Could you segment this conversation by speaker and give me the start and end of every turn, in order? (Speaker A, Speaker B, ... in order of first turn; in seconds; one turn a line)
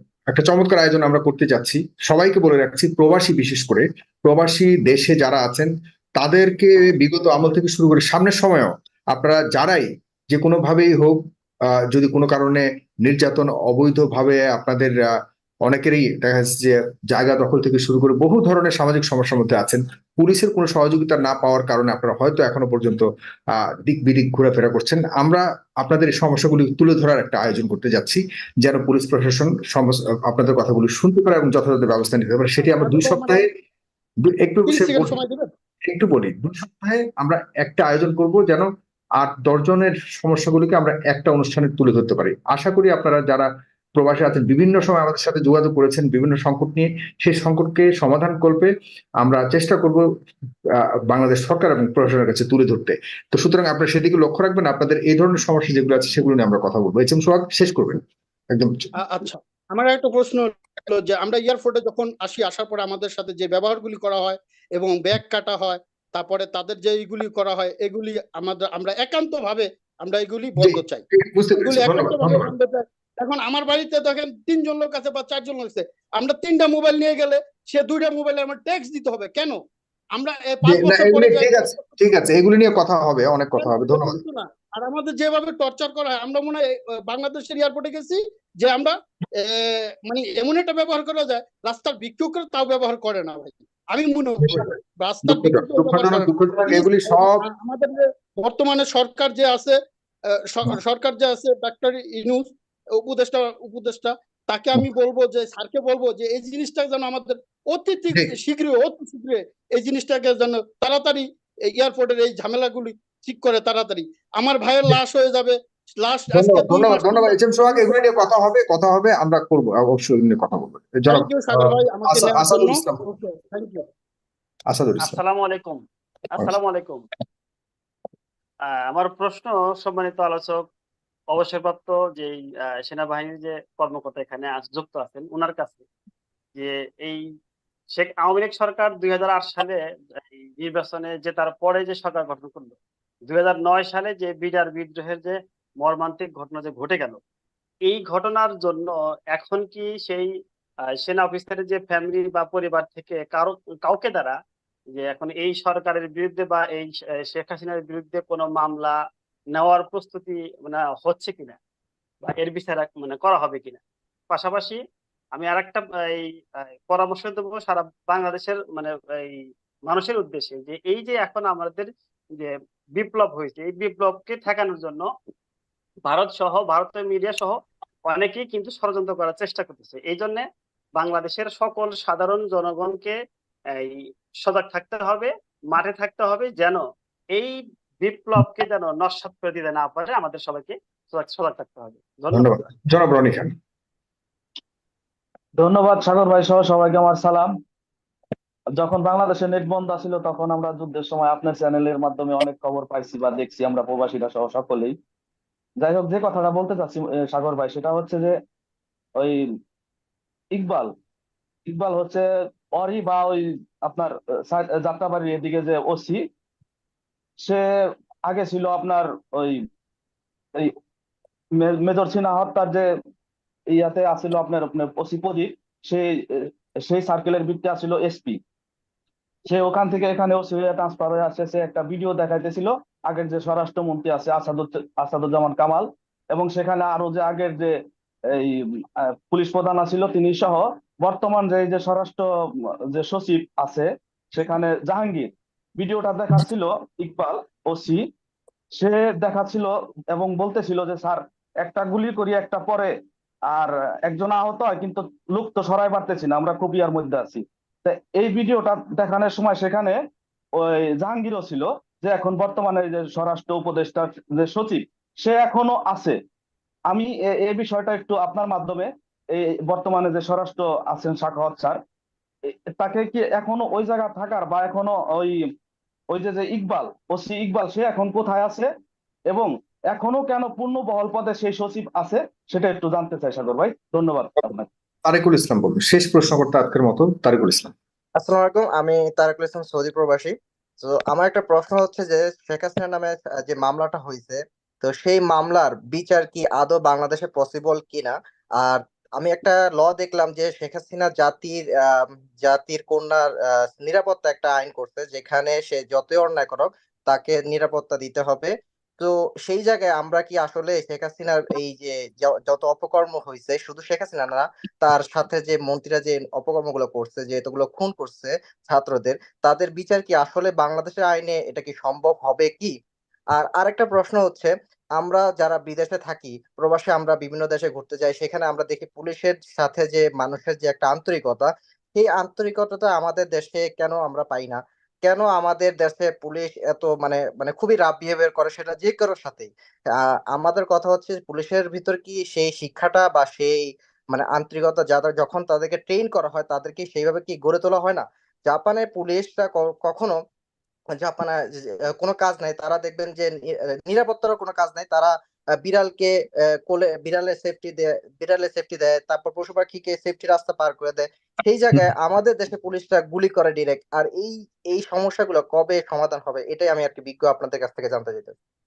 Speaker A: 0.3-11.2
Speaker A: 11.9-15.1
Speaker A: 15.6-33.5
Speaker B: 32.7-33.4
Speaker A: 34.2-35.2
Speaker B: 34.7-35.5
Speaker A: 35.9-38.7
Speaker A: 39.2-50.1
Speaker A: 50.8-58.0
Speaker A: 58.5-58.9
Speaker B: 59.1-71.0
Speaker A: 70.6-72.5
Speaker B: 71.6-79.6
Speaker B: 80.2-81.7
Speaker A: 80.7-84.2
Speaker B: 83.6-99.8
Speaker A: 95.2-97.4
Speaker B: 100.5-117.9
Speaker A: 116.3-123.0
Speaker B: 121.1-123.8
Speaker A: 124.7-125.2
Speaker C: 125.0-127.1
Speaker C: 128.7-130.7
Speaker C: 131.3-135.8
Speaker C: 136.6-137.2
Speaker C: 137.9-142.8
Speaker C: 143.3-147.2
Speaker C: 147.8-150.3
Speaker C: 150.9-154.4
Speaker C: 154.9-159.0
Speaker C: 159.5-161.6
Speaker C: 162.2-164.8
Speaker C: 165.3-175.1
Speaker C: 176.1-180.4
Speaker C: 181.0-183.2
Speaker C: 183.8-186.8
Speaker C: 187.3-192.6
Speaker A: 192.3-193.5
Speaker D: 195.6-197.5
Speaker D: 198.8-204.9
Speaker D: 205.8-208.4
Speaker D: 210.5-210.9
Speaker D: 211.7-216.2
Speaker D: 217.4-217.7
Speaker D: 218.2-219.7
Speaker D: 221.6-222.9
Speaker D: 223.7-228.4
Speaker D: 229.5-237.8
Speaker D: 238.3-242.2
Speaker D: 242.9-248.0
Speaker D: 248.8-252.9
Speaker D: 253.5-260.0
Speaker D: 260.6-266.2
Speaker D: 266.9-271.8
Speaker D: 272.5-275.4
Speaker D: 276.1-278.7
Speaker D: 279.3-284.7
Speaker A: 285.1-287.7
Speaker E: 288.2-322.8
Speaker E: 323.3-339.5
Speaker E: 340.3-350.2
Speaker E: 350.9-356.1
Speaker E: 356.7-368.3